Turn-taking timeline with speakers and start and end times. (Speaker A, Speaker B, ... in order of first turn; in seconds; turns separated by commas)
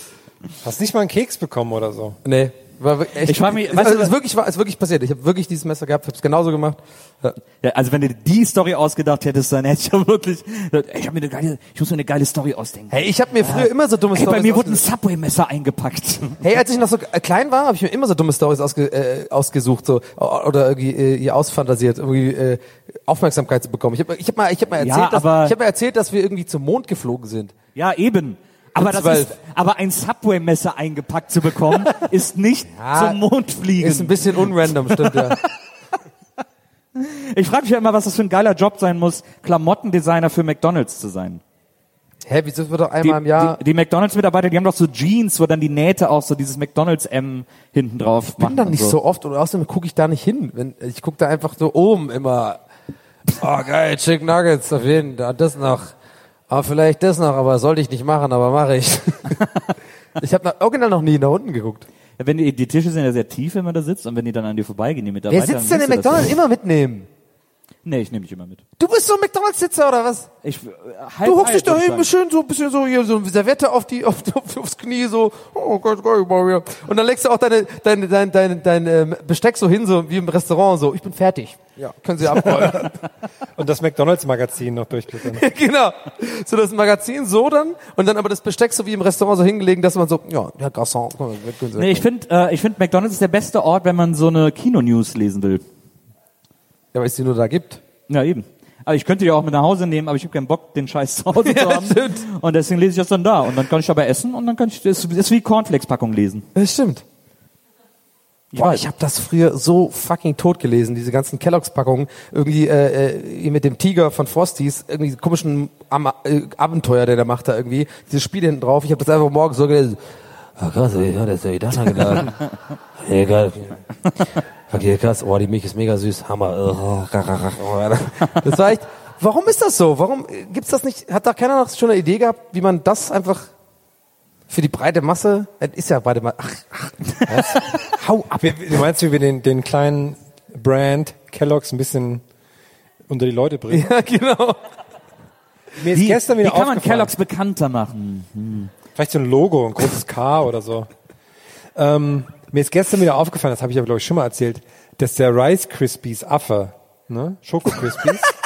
Speaker A: 0.6-2.2, Speaker B: 2.2-7.4, Speaker C: 3.2-4.1, Speaker C: 7.6-16.4, Speaker B: 12.9-14.8, Speaker B: 16.4-27.5, Speaker C: 24.8-25.6, Speaker C: 27.8-35.3, Speaker B: 28.8-29.4, Speaker B: 32.7-33.2, Speaker B: 33.8-35.4, Speaker C: 37.0-41.4, Speaker B: 42.2-43.6, Speaker C: 43.0-49.0, Speaker B: 48.4-52.6, Speaker B: 53.3-55.9, Speaker B: 56.5-59.4, Speaker B: 60.2-61.9, Speaker C: 62.2-66.3, Speaker B: 65.3-67.1, Speaker C: 67.8-68.6, Speaker B: 68.8-70.3, Speaker C: 70.4-72.1, Speaker B: 71.2-83.0, Speaker A: 82.5-82.9, Speaker A: 83.6-85.4, Speaker B: 85.2-92.0, Speaker C: 91.8-95.6, Speaker B: 96.9-97.8, Speaker C: 98.1-106.4, Speaker B: 101.4-102.2, Speaker B: 106.5-107.0, Speaker B: 108.5-120.0, Speaker C: 108.5-108.8, Speaker B: 120.5-122.4, Speaker B: 123.0-123.8, Speaker B: 124.7-133.5, Speaker B: 134.5-138.7, Speaker A: 137.3-137.8, Speaker A: 138.4-142.2, Speaker A: 143.1-143.9, Speaker B: 143.7-144.6, Speaker A: 145.8-147.1, Speaker C: 145.9-148.7, Speaker A: 148.9-150.9, Speaker A: 151.8-158.2